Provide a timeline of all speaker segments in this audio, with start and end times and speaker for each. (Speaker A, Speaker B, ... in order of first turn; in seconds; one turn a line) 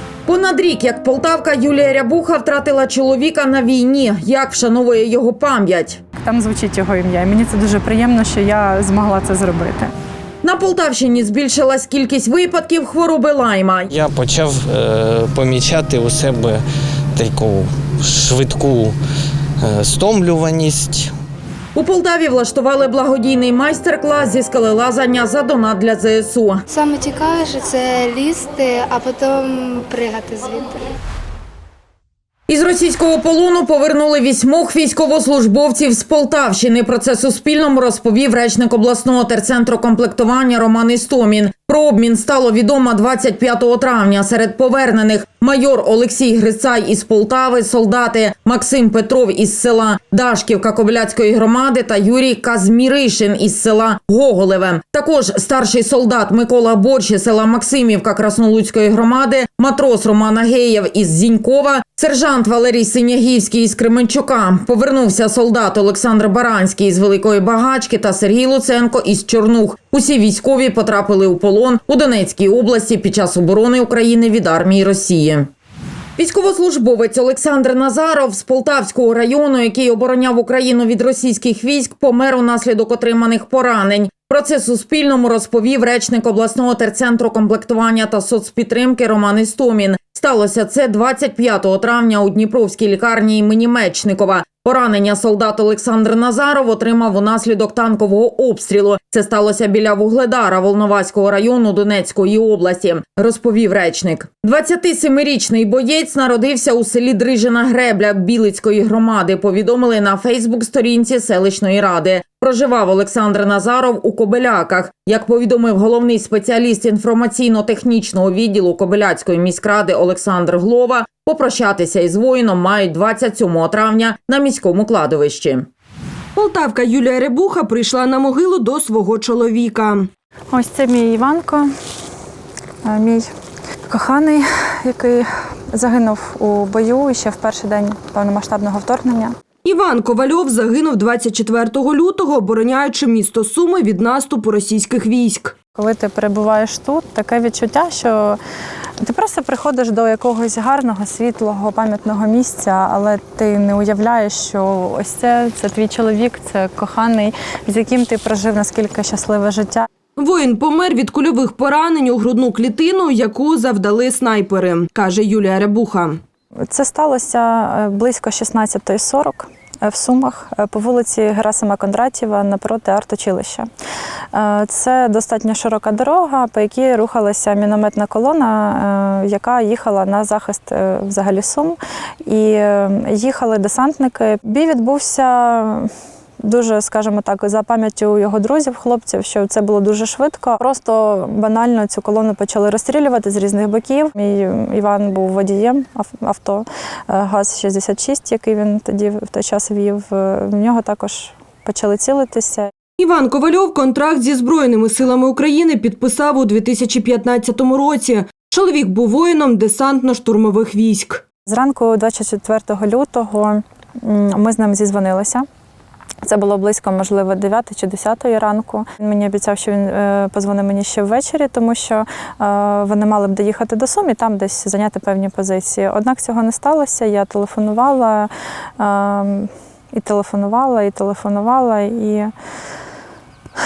Speaker A: 0.3-6.0
Speaker B: 6.3-9.9
Speaker A: 10.4-13.9
Speaker C: 13.9-16.6
Speaker C: 17.2-19.0
Speaker C: 19.6-21.1
Speaker A: 21.8-26.6
Speaker D: 26.7-30.8
Speaker A: 32.5-75.5
Speaker A: 76.2-125.7
Speaker E: 126.4-130.1
Speaker B: 130.5-131.7
Speaker B: 132.8-133.3
Speaker B: 133.9-139.3
Speaker E: 139.7-145.5
Speaker B: 145.8-148.4
Speaker B: 149.1-159.9
Speaker E: 160.2-166.2
Speaker B: 166.7-173.7
Speaker B: 174.3-185.9
Speaker B: 186.4-202.7
Speaker E: 203.0-211.2
Speaker B: 211.5-215.4
Speaker B: 216.2-232.3